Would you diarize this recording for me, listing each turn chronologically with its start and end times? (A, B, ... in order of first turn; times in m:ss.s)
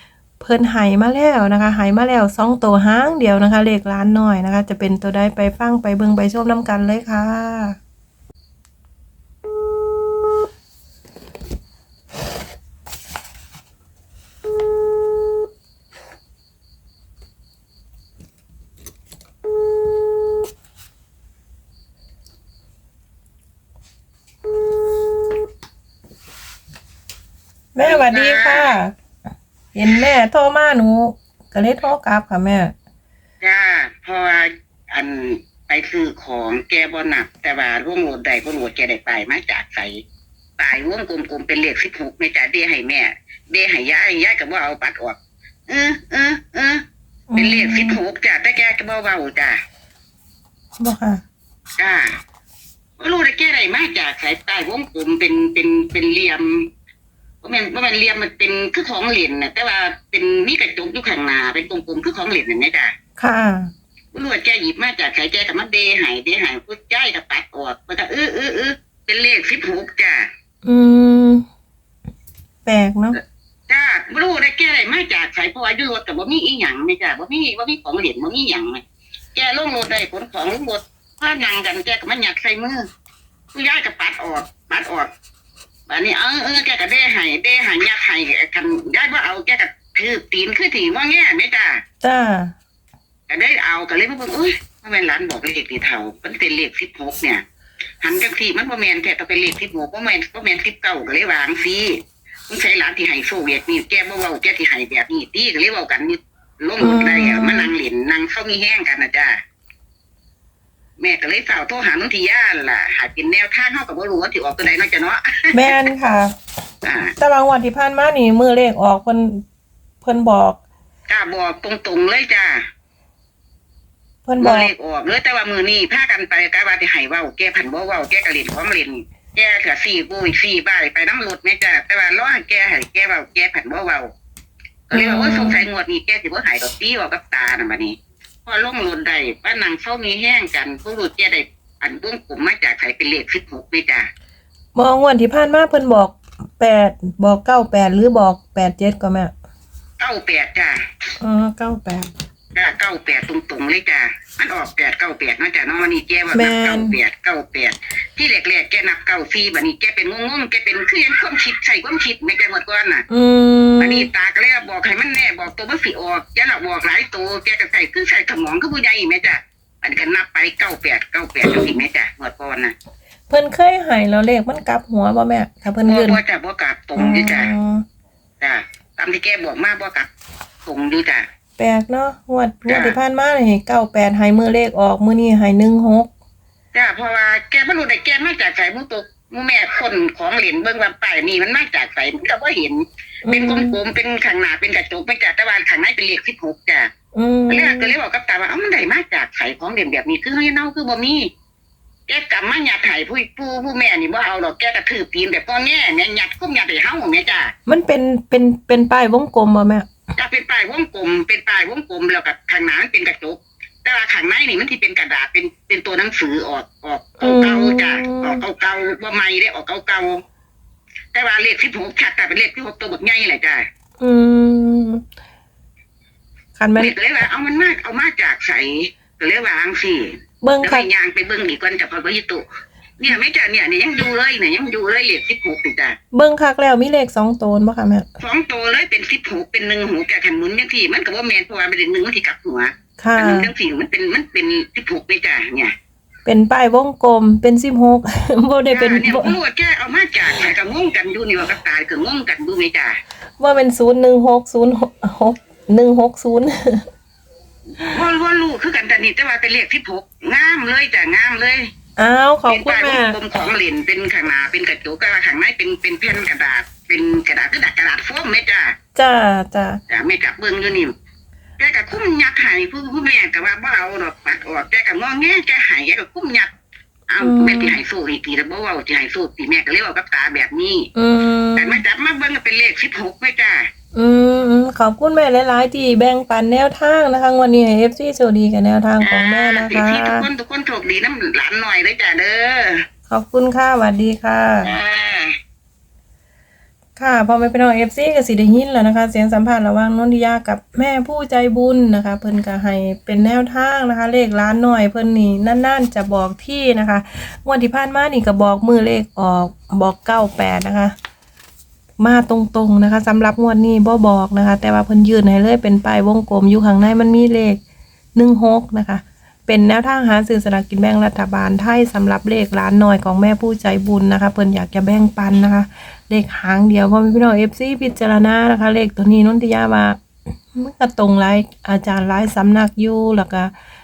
0:00.4-0:07.8 A
0:27.7-0:28.9 A
0:27.8-0:28.7 B
0:29.7-0:32.7 A
0:33.4-0:40.0 B
0:40.6-0:46.8 B
0:47.3-0:48.0 A
0:47.4-0:49.6 B
0:50.8-0:51.2 A
0:51.8-0:52.1 B
0:53.0-0:56.7 B
0:57.4-1:02.9 B
1:03.2-1:03.7 A
1:04.1-1:10.3 B
1:10.6-1:11.4 A
1:12.6-1:13.2 A
1:13.7-1:18.8 B
1:19.3-1:22.8 B
1:23.5-1:25.1 B
1:25.9-1:31.8 B
1:32.0-1:32.5 A
1:33.3-1:37.4 B
1:38.0-1:42.0 B
1:42.5-1:49.4 B
1:46.8-1:47.7 A
1:51.0-1:55.8 B
1:55.5-1:56.3 A
1:56.8-1:57.1 B
1:57.2-1:59.4 A
2:00.0-2:00.6 A
2:01.1-2:02.6 B
2:04.2-2:04.7 A
2:04.4-2:14.0 B
2:14.9-2:24.0 B
2:14.9-2:15.6 A
2:24.7-2:29.3 A
2:30.0-2:30.8 B
2:31.2-2:32.1 A
2:32.5-2:43.0 B
2:36.3-2:37.0 A
2:43.1-2:44.1 A
2:43.8-2:52.7 B
2:53.3-2:56.2 A
2:55.8-2:57.5 B
2:57.0-2:57.8 A
2:58.4-3:00.1 B
3:00.6-3:01.2 B
3:01.6-3:06.1 A
3:02.7-3:03.0 B
3:06.7-3:16.9 B
3:13.2-3:13.8 A
3:17.1-3:17.9 A
3:17.5-3:21.3 B
3:22.1-3:27.5 B
3:27.7-3:29.9 A
3:30.2-3:40.2 B
3:37.2-3:38.4 A
3:41.1-3:43.6 B
3:44.0-3:45.0 A
3:46.6-3:46.9 A
3:46.8-3:52.4 B
3:50.4-3:50.9 A
3:53.0-3:56.0 B
3:56.1-3:58.1 A
3:58.2-4:05.7 B
4:03.0-4:03.5 A
4:06.2-4:09.4 A
4:08.7-4:13.0 B
4:13.4-4:16.8 A
4:17.9-4:21.7 B
4:22.0-4:23.2 A
4:22.5-4:28.7 B
4:29.0-4:29.8 A
4:29.9-4:30.9 B
4:31.6-4:36.5 B
4:37.1-4:40.9 B
4:37.2-4:37.8 A
4:40.9-4:41.8 A
4:41.6-4:43.6 B
4:43.9-4:50.3 A
4:49.0-4:52.8 B
4:53.1-4:54.7 A
4:54.6-4:55.3 B
4:57.0-5:10.9 A
5:12.0-5:17.6 A
5:18.1-5:30.0 A
5:30.5-5:33.5 A